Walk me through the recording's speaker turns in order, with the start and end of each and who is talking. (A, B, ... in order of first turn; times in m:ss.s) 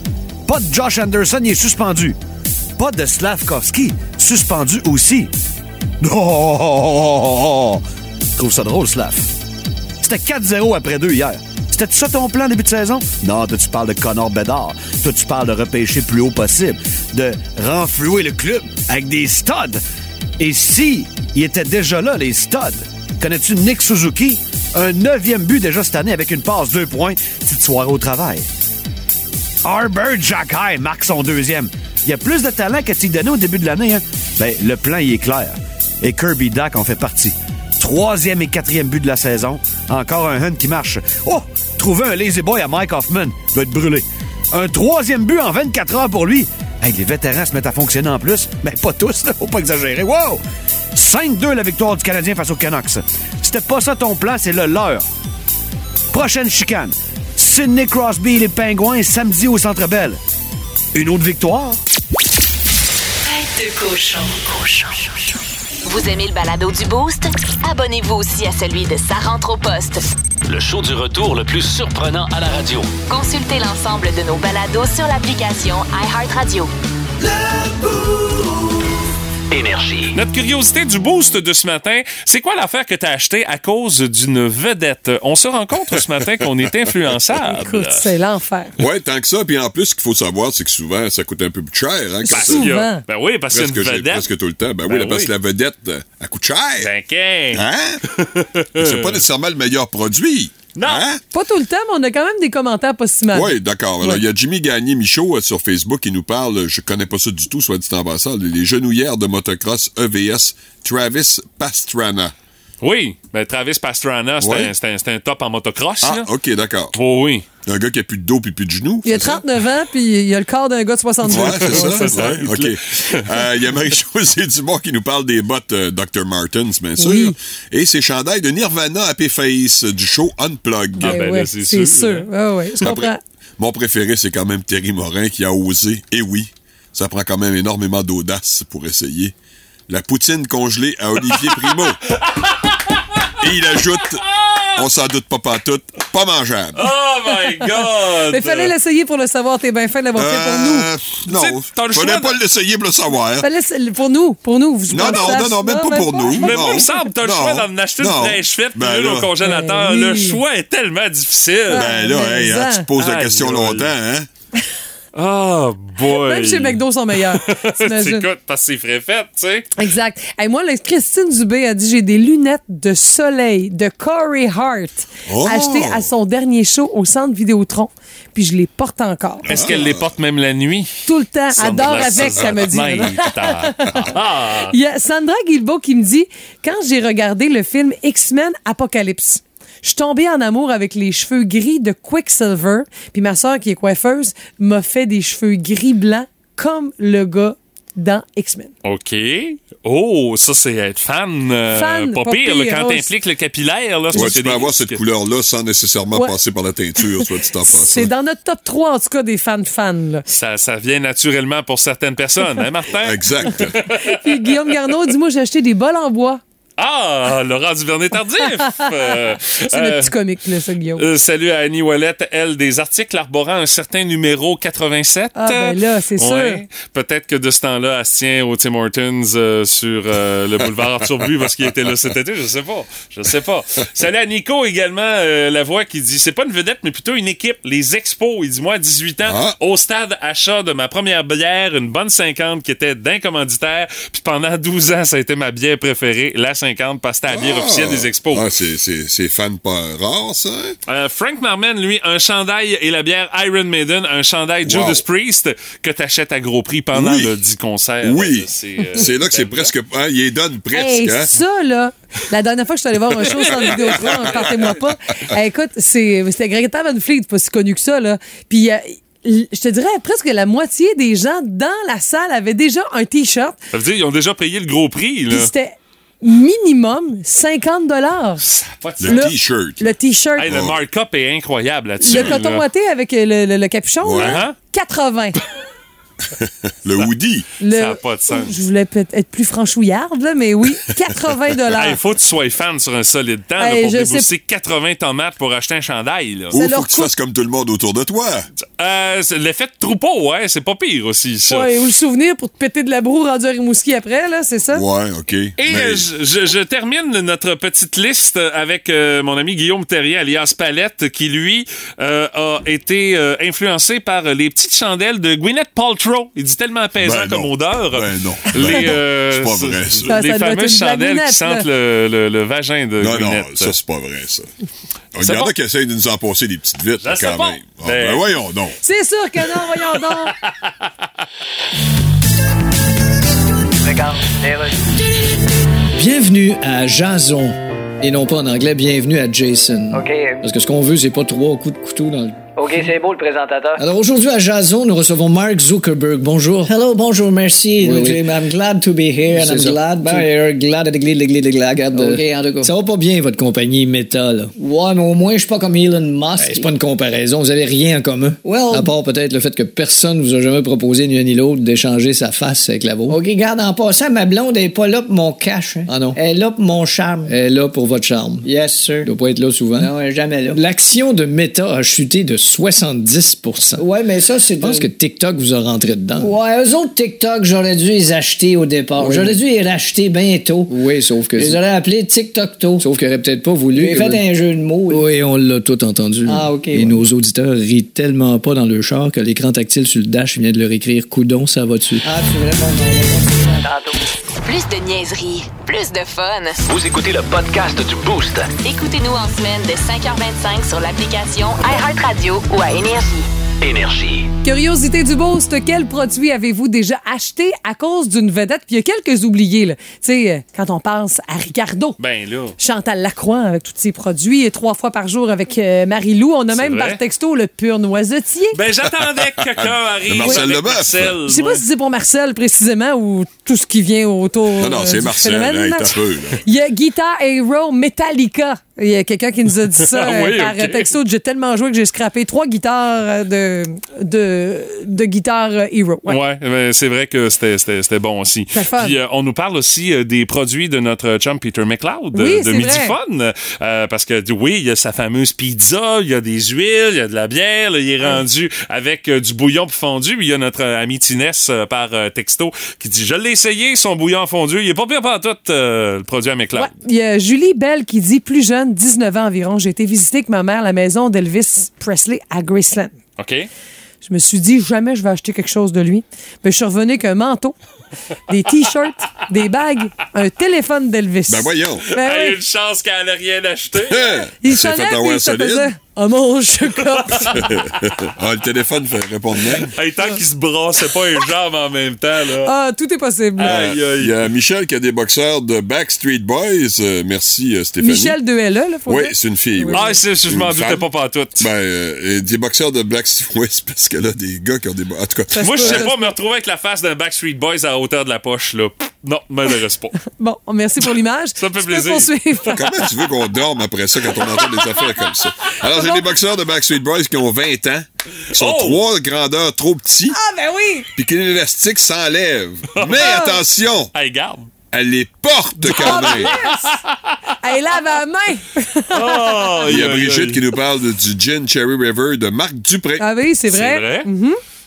0:00.4-0:02.2 A
0:02.8-0:05.3 A
0:06.0-0:07.8 A
0:08.4-0:09.3 A
0:10.0-0:19.8 A
0:20.4-0:28.5 A
0:29.6-0:50.4 A
0:50.9-0:55.0 A
0:56.1-1:00.2 A
1:00.9-1:01.8 A
1:03.2-1:10.1 B
1:10.5-1:12.9 C
1:13.1-1:16.7 B
1:19.5-1:20.2 C
1:20.1-1:28.1 D
1:27.4-1:28.8 E
1:28.8-1:32.7 F
1:32.2-1:33.0 E
1:32.3-1:34.2 D
1:33.5-1:36.9 F
1:34.8-1:35.3 D
1:36.8-1:39.2 D
1:37.5-1:38.0 F
1:38.8-1:41.2 F
1:40.7-1:41.0 D
1:41.3-1:44.2 E
1:43.3-1:52.3 F
1:52.8-1:56.3 D
1:54.4-1:54.7 F
1:56.0-1:56.9 F
1:56.9-1:57.4 D
1:57.6-1:59.4 F
1:59.0-2:02.2 E
2:01.3-2:11.2 F
2:01.3-2:03.5 D
2:07.0-2:07.4 E
2:11.0-2:13.2 E
2:11.0-2:12.3 D
2:12.8-2:19.3 F
2:19.9-2:22.0 F
2:21.3-2:24.9 D
2:23.4-2:24.2 F
2:24.8-2:26.9 F
2:26.8-2:28.7 D
2:28.3-2:30.9 E
2:30.2-2:33.5 F
2:31.2-2:32.4 D
2:33.4-2:36.9 E
2:34.9-2:39.3 F
2:35.0-2:35.4 D
2:36.4-2:41.9 D
2:39.4-2:40.4 E
2:41.7-2:42.9 E
2:41.7-2:44.3 F
2:43.0-2:43.9 D
2:45.1-2:49.7 D
2:46.1-2:48.2 E
2:49.8-2:59.8 E
2:55.3-2:56.1 F
2:59.4-3:00.9 D
2:59.5-3:00.1 F
3:01.0-3:18.7 E
3:01.5-3:04.7 D
3:01.6-3:02.6 F
3:03.8-3:04.2 F
3:18.8-3:25.0 D
3:21.7-3:23.1 E
3:24.1-3:24.4 E
3:24.1-3:28.1 F
3:27.2-3:30.2 E
3:30.3-3:34.7 D
3:32.9-3:33.8 F
3:33.6-3:36.4 E
3:36.8-3:40.1 D
3:38.5-3:41.1 E
3:41.0-4:08.5 D
3:45.4-3:46.6 E
3:59.2-3:59.6 F
4:07.3-4:10.8 F
4:10.9-4:19.7 D
4:14.6-4:15.0 F
4:16.9-4:17.4 F
4:18.0-4:21.3 F
4:20.7-4:33.6 E
4:23.2-4:24.8 F
4:23.4-4:24.6 D
4:33.7-4:35.5 D
4:35.3-4:38.4 E
4:38.4-4:39.3 D
4:39.0-4:39.9 F
4:39.0-4:40.5 E
4:40.4-4:42.6 D
4:40.5-4:40.8 F
4:42.0-4:45.4 E
4:42.0-4:42.4 F
4:44.0-4:44.4 F
4:44.1-4:44.5 D
4:46.4-4:47.5 F
4:47.6-4:52.0 E
4:47.6-4:48.6 D
4:51.8-4:56.6 D
4:53.6-4:54.3 E
4:56.5-4:58.5 F
4:56.5-4:57.1 E
4:58.6-5:01.7 D
5:01.5-5:04.8 E
5:04.7-5:06.1 F
5:05.6-5:23.7 D
5:17.0-5:20.2 F
5:20.1-5:21.6 E
5:23.0-5:24.5 F
5:25.2-5:28.8 F
5:25.2-5:25.5 D
5:27.0-5:28.2 D
5:28.8-5:30.3 E
5:30.3-5:30.7 D
5:33.8-5:34.8 G
5:36.0-5:42.9 H
5:39.9-5:40.4 G
5:42.5-5:43.8 G
5:43.8-5:46.7 H
5:46.7-5:50.3 G
5:47.8-5:48.4 H
5:49.3-5:54.5 H
5:51.9-5:52.7 G
5:54.6-5:56.7 G
5:56.3-6:03.2 H
5:58.4-5:58.9 G
6:03.1-6:07.3 G
6:05.9-6:06.2 H
6:07.3-6:08.5 H
6:08.4-6:09.1 G
6:09.0-6:10.0 H
6:09.8-6:10.6 G
6:10.5-6:13.9 H
6:13.8-6:14.9 G
6:14.6-6:16.3 H
6:16.2-6:20.7 G
6:19.0-6:19.4 H
6:20.7-6:21.6 H
6:21.4-6:22.8 G
6:22.8-6:24.3 H
6:23.7-6:25.0 G
6:24.9-6:32.1 H
6:26.3-6:27.0 G
6:32.0-6:33.9 G
6:34.4-6:36.6 B
6:36.7-6:38.5 C
6:38.6-6:43.3 B
6:43.6-6:44.3 C
6:44.4-6:52.0 E
6:52.0-6:52.5 D
6:52.6-6:58.6 E
6:56.5-6:57.0 D
6:58.5-7:01.6 D
6:58.9-7:01.2 F
7:01.3-7:16.2 E
7:04.6-7:06.4 F
7:09.8-7:10.9 D
7:16.1-7:36.7 D
7:18.5-7:19.0 E
7:22.1-7:22.9 E
7:36.6-7:42.9 E
7:43.2-7:43.5 D
7:44.0-7:47.6 E
7:48.3-7:52.4 E
7:51.3-7:51.8 F
7:51.9-7:54.3 D
7:53.9-7:55.7 F
7:54.4-7:57.4 E
7:57.0-7:57.4 D
7:57.4-7:59.7 F
7:59.5-8:02.5 D
8:02.4-8:03.5 E
8:03.4-8:04.1 D
8:03.4-8:08.2 F
8:07.8-8:10.0 E
8:08.8-8:10.9 F
8:09.7-8:11.5 D
8:11.4-8:15.9 F
8:15.3-8:16.1 E
8:15.4-8:20.0 D
8:20.1-8:22.6 E
8:21.4-8:22.1 D
8:22.5-8:30.2 F
8:24.1-8:25.3 D
8:25.7-8:26.1 E
8:28.3-8:28.8 D
8:30.1-8:30.9 E
8:31.0-8:33.9 F
8:32.7-8:33.2 D
8:33.0-8:33.4 E
8:33.9-8:34.5 D
8:34.7-8:36.3 F
8:35.6-8:36.8 E
8:35.7-8:37.2 D
8:37.4-8:39.7 E
8:38.9-8:40.4 D
8:39.7-8:43.0 F
8:43.0-8:44.4 E
8:43.5-8:44.1 D